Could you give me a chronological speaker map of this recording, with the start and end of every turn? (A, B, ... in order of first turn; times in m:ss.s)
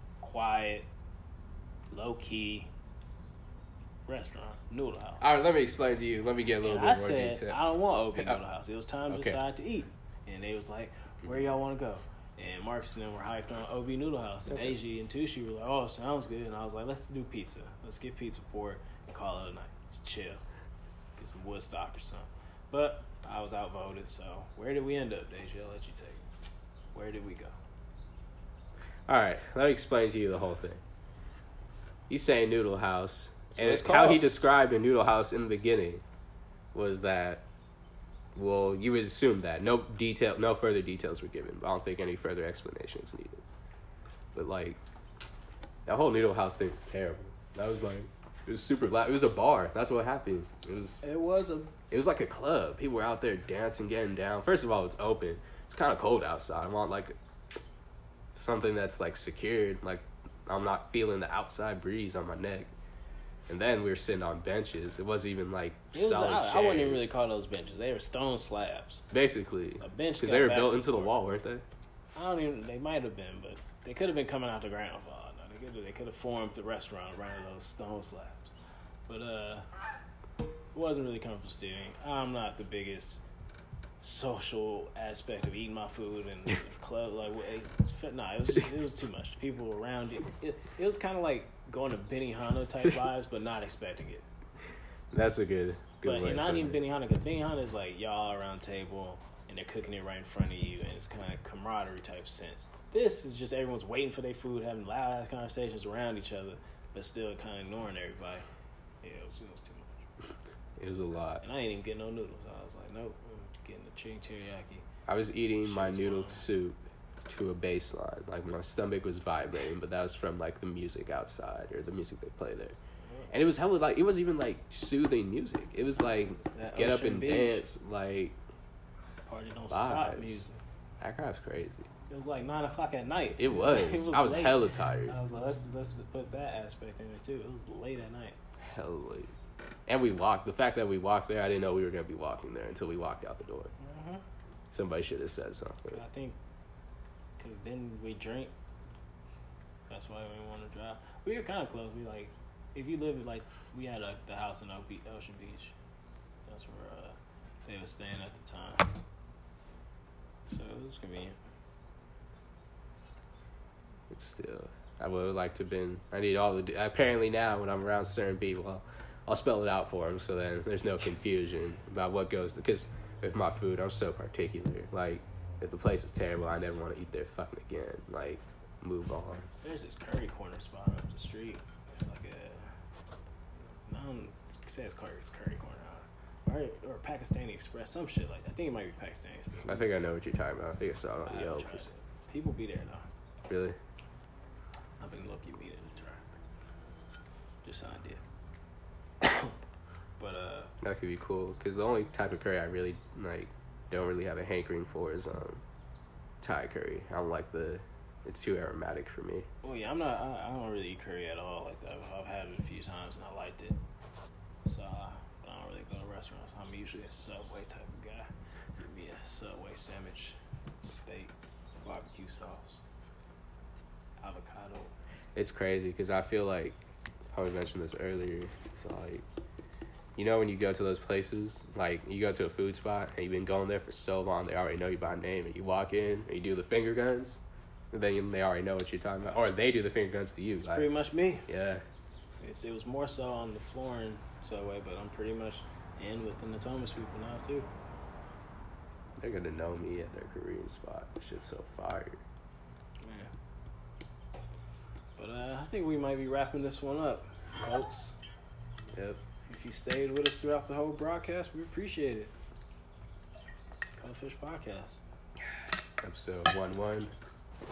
0:00.2-0:00.9 A
0:01.9-0:02.7 A
0:04.1-0:05.2 A
0:05.2-0:07.6 B
0:06.6-0:20.4 A
0:09.1-0:09.4 B
0:21.2-0:26.3 A
0:26.9-0:27.5 A
0:29.1-0:30.8 B
0:32.1-0:36.0 B
0:33.6-0:34.3 A
0:36.7-0:37.5 B
0:38.4-0:43.4 B
0:44.3-0:44.8 B
0:45.9-0:51.0 B
0:51.0-0:51.7 A
0:51.9-0:57.2 B
0:58.4-1:02.7 B
1:03.5-1:07.1 B
1:05.9-1:09.0 A
1:09.1-1:11.6 B
1:09.8-1:11.2 A
1:12.1-1:18.5 A
1:19.1-1:19.7 A
1:20.7-1:23.2 A
1:24.0-1:34.2 A
1:35.1-1:36.8 B
1:36.0-1:48.5 A
1:49.0-1:50.0 A
1:50.8-1:51.4 B
1:51.4-1:54.8 A
1:55.1-2:02.8 B
1:55.6-1:56.5 A
2:03.3-2:08.4 B
2:06.4-2:07.7 A
2:09.3-2:10.6 A
2:09.7-2:10.4 B
2:11.0-2:11.9 B
2:12.1-2:18.4 A
2:13.4-2:15.2 B
2:18.6-2:19.3 B
2:19.9-2:23.7 B
2:23.8-2:24.2 A
2:24.7-2:26.0 B
2:25.9-2:26.4 A
2:27.4-2:28.5 A
2:29.9-2:35.8 A
2:36.5-2:39.0 A
2:40.5-2:41.4 A
2:44.1-2:59.5 B
2:59.6-3:02.8 A
3:03.7-3:09.9 A
3:09.6-3:11.9 B
3:11.3-3:13.1 A
3:13.5-3:13.8 B
3:15.0-3:16.3 A
3:17.6-3:18.2 A
3:19.2-3:19.6 A
3:20.2-3:20.7 A
3:20.8-3:25.6 B
3:26.4-3:29.5 B
3:29.6-3:33.8 A
3:34.6-3:42.8 A
3:44.2-3:44.9 A
3:45.4-3:46.8 B
3:47.3-3:49.2 B
3:50.2-4:00.9 B
3:59.2-3:59.8 A
4:00.6-4:01.5 A
4:01.5-4:01.8 B
4:02.4-4:07.7 A
4:09.2-4:12.2 B
4:13.0-4:13.3 A
4:15.2-4:18.2 A
4:18.9-4:19.2 B
4:19.5-4:22.3 A
4:24.0-4:25.0 A
4:26.0-4:27.2 B